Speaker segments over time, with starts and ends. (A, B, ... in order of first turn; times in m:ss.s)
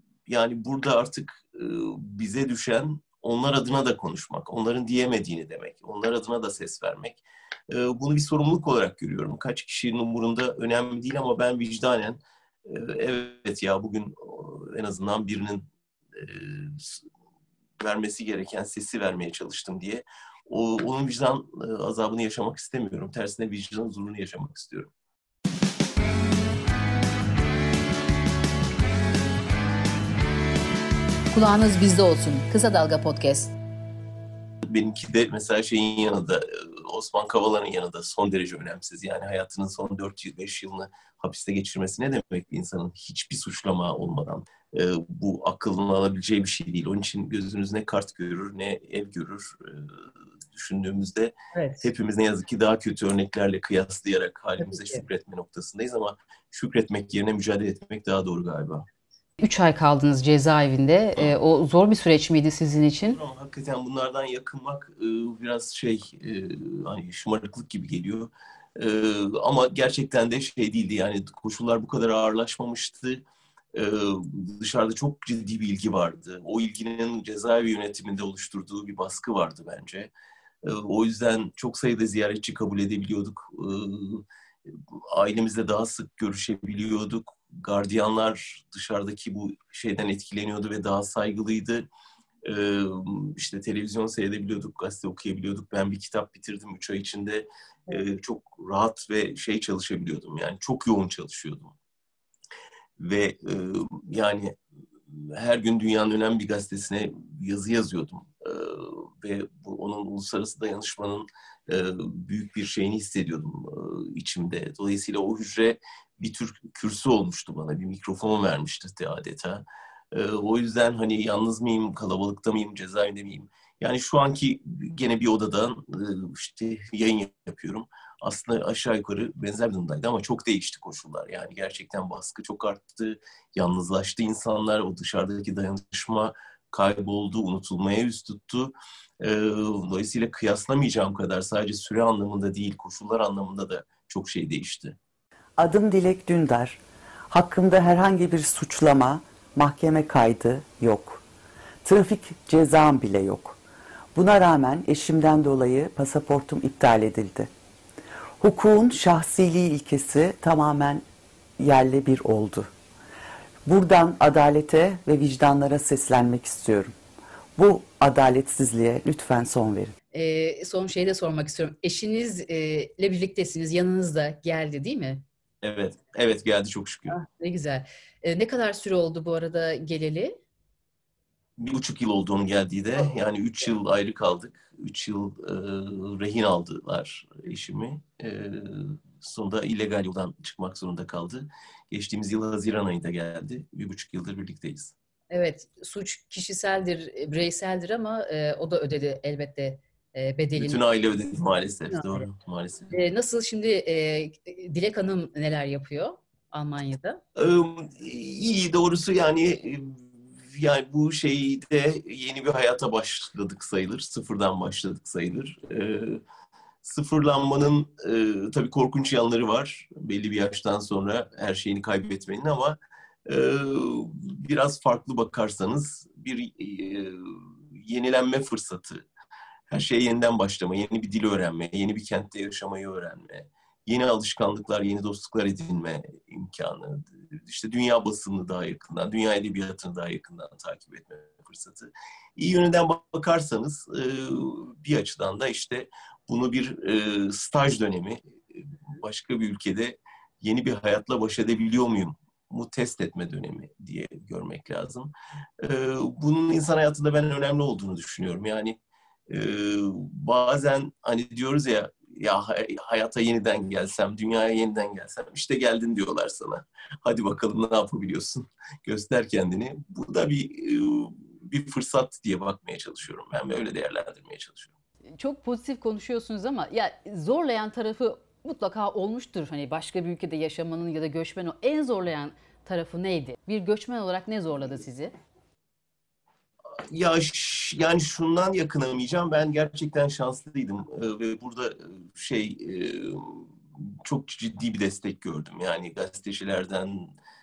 0:00.3-0:17.0 A
0:17.8-0:24.9 A
0:31.3-0:33.5 B
0:34.6-0:50.0 A
0:50.5-0:58.8 A
0:51.5-0:51.9 B
0:54.6-0:55.0 B
0:59.4-1:03.2 B
1:03.1-1:13.2 A
1:13.7-1:20.1 A
1:20.6-1:24.2 A
1:25.1-1:31.8 A
1:32.4-1:41.7 A
1:43.0-1:44.6 A
1:45.1-2:25.0 A
2:25.6-2:31.2 C
2:31.8-2:33.6 C
2:34.1-2:37.5 C
2:38.4-2:41.0 C
2:41.6-2:42.7 C
2:43.6-2:46.9 C
2:47.6-2:49.9 C
2:50.1-2:55.2 B
2:55.6-2:57.1 A
2:57.1-3:00.4 B
3:01.6-3:14.9 A
3:15.3-3:20.8 B
3:20.6-3:22.9 A
3:21.9-3:22.2 B
3:22.9-3:27.2 B
3:27.4-3:36.2 A
3:36.8-3:49.0 A
3:49.7-4:34.7 A
4:35.2-4:45.1 B
4:46.9-4:57.1 A